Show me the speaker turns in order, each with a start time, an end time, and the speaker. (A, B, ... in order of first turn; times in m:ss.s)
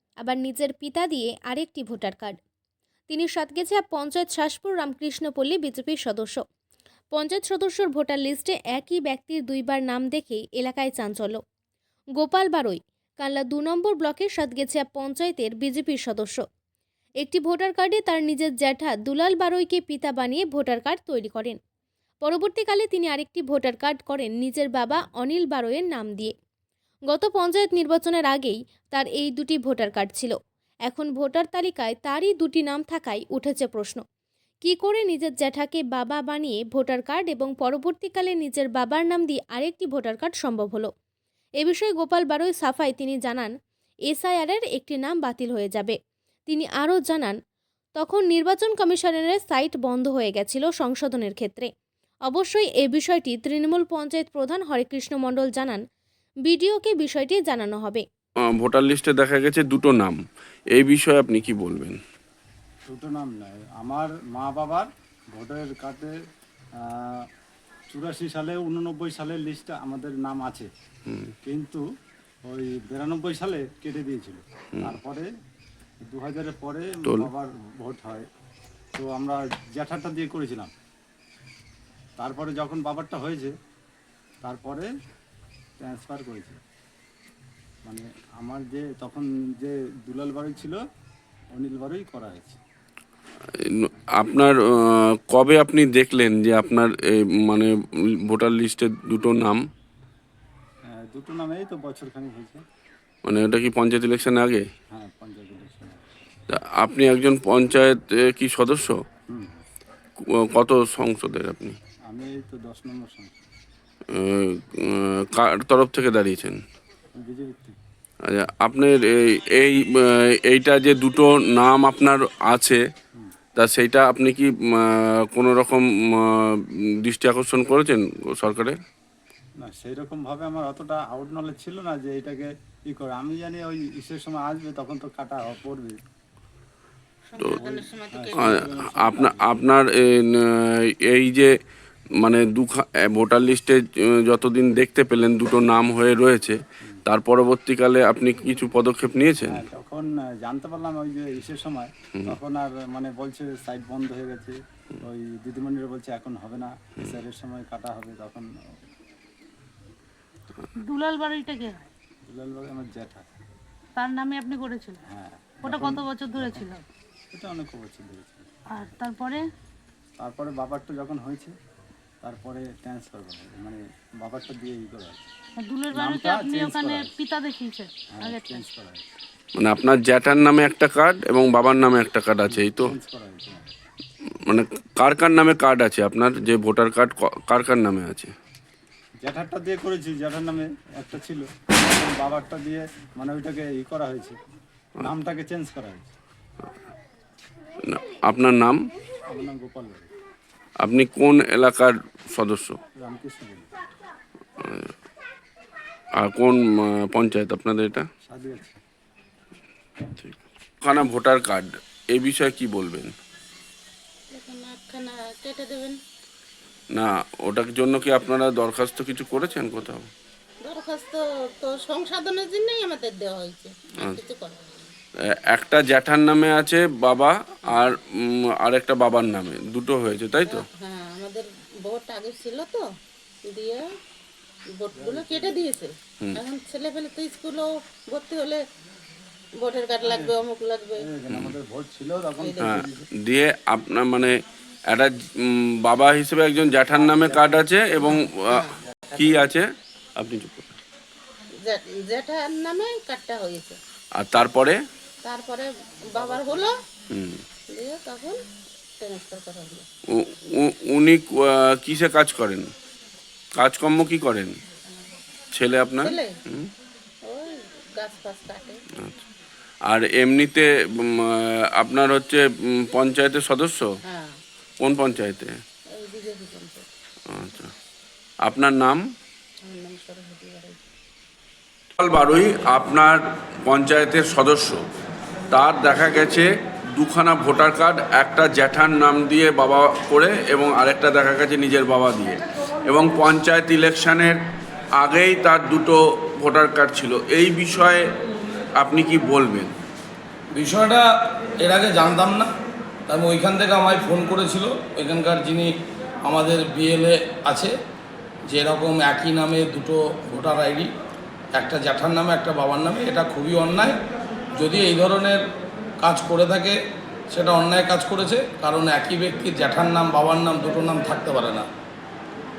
0:00.2-0:02.4 A
0:03.1-0:06.4 A
0:07.1-0:11.4 A
0:12.2-0:16.4 A
0:17.2-0:21.6 A
0:22.2-0:26.3 A
0:27.1-0:34.0 A
0:34.6-0:40.9 A
0:41.6-0:43.5 A
0:44.1-0:46.0 A
0:46.5-0:47.4 A
0:48.0-0:51.7 A
0:52.3-0:55.8 A
0:56.4-0:58.0 A
0:58.4-1:00.2 B
1:00.7-1:02.0 B
1:02.9-1:06.1 C
1:06.8-1:07.2 C
1:07.9-1:10.7 C
1:11.1-1:11.3 B
1:11.4-1:11.8 C
1:12.4-1:15.3 C
1:16.0-1:18.2 C
1:18.9-1:20.7 C
1:22.2-1:23.5 C
1:24.4-1:24.9 C
1:25.8-1:26.6 C
1:27.8-1:30.8 C
1:31.5-1:32.6 C
1:33.5-1:37.7 B
1:38.2-1:39.6 B
1:40.9-1:42.6 C
1:43.2-1:44.6 B
1:44.9-1:46.0 C
1:46.5-1:49.0 B
1:49.3-1:49.6 C
1:50.3-1:51.8 B
1:52.1-1:53.4 C
1:54.1-1:56.6 B
1:57.2-1:57.8 C
1:58.2-2:02.8 B
2:03.6-2:08.8 B
2:09.6-2:16.0 C
2:17.3-2:18.3 D
2:17.5-2:19.4 C
2:18.3-2:21.5 B
2:22.2-2:29.6 B
2:29.5-2:38.5 C
2:40.8-2:41.9 E
2:42.3-2:43.3 C
2:44.0-2:45.0 E
2:45.1-2:46.7 C
2:45.6-2:46.8 E
2:47.3-2:48.5 C
2:48.7-2:49.4 E
2:50.2-2:51.5 C
2:52.2-2:55.3 C
2:55.6-2:58.6 E
2:55.9-2:57.1 C
2:58.1-2:59.2 C
2:59.6-3:02.9 B
3:02.5-3:03.7 C
3:04.5-3:08.3 B
3:09.2-3:14.4 C
3:15.0-3:16.1 C
3:17.8-3:18.8 B
3:19.3-3:20.1 C
3:20.8-3:22.8 B
3:23.0-3:23.7 C
3:24.6-3:24.9 B
3:26.2-3:28.0 B
3:28.2-3:28.8 C
3:30.2-3:33.1 B
3:34.3-3:35.9 D
3:36.9-3:40.1 B
3:40.6-3:44.6 D
3:45.2-3:50.7 B
3:50.5-3:52.8 D
3:53.5-3:53.8 D
3:54.8-3:58.6 D
3:54.9-3:55.6 C
3:59.6-4:01.0 D
4:00.0-4:00.4 C
4:01.0-4:03.1 C
4:02.6-4:04.3 B
4:04.9-4:10.7 B
4:07.1-4:07.6 C
4:11.6-4:13.8 D
4:14.2-4:14.8 B
4:15.2-4:16.7 D
4:17.1-4:17.4 B
4:17.7-4:18.4 D
4:19.0-4:19.8 D
4:20.1-4:22.7 B
4:23.6-4:24.5 B
4:25.5-4:26.7 B
4:26.0-4:26.3 D
4:27.2-4:28.8 D
4:29.9-4:33.9 B
4:34.8-4:35.6 B
4:35.9-4:36.8 D
4:37.3-4:37.7 B
4:38.4-4:39.0 B
4:39.6-4:40.8 D
4:42.0-4:44.8 B
4:45.5-4:54.4 B
4:55.0-4:58.0 B
4:58.7-4:59.7 B
5:00.5-5:01.0 F
5:01.6-5:02.5 F
5:03.1-5:05.7 F
5:06.2-5:07.7 F
5:08.5-5:10.9 F
5:11.5-5:14.0 F
5:14.6-5:15.4 F
5:16.0-5:16.8 F
5:17.3-5:21.6 F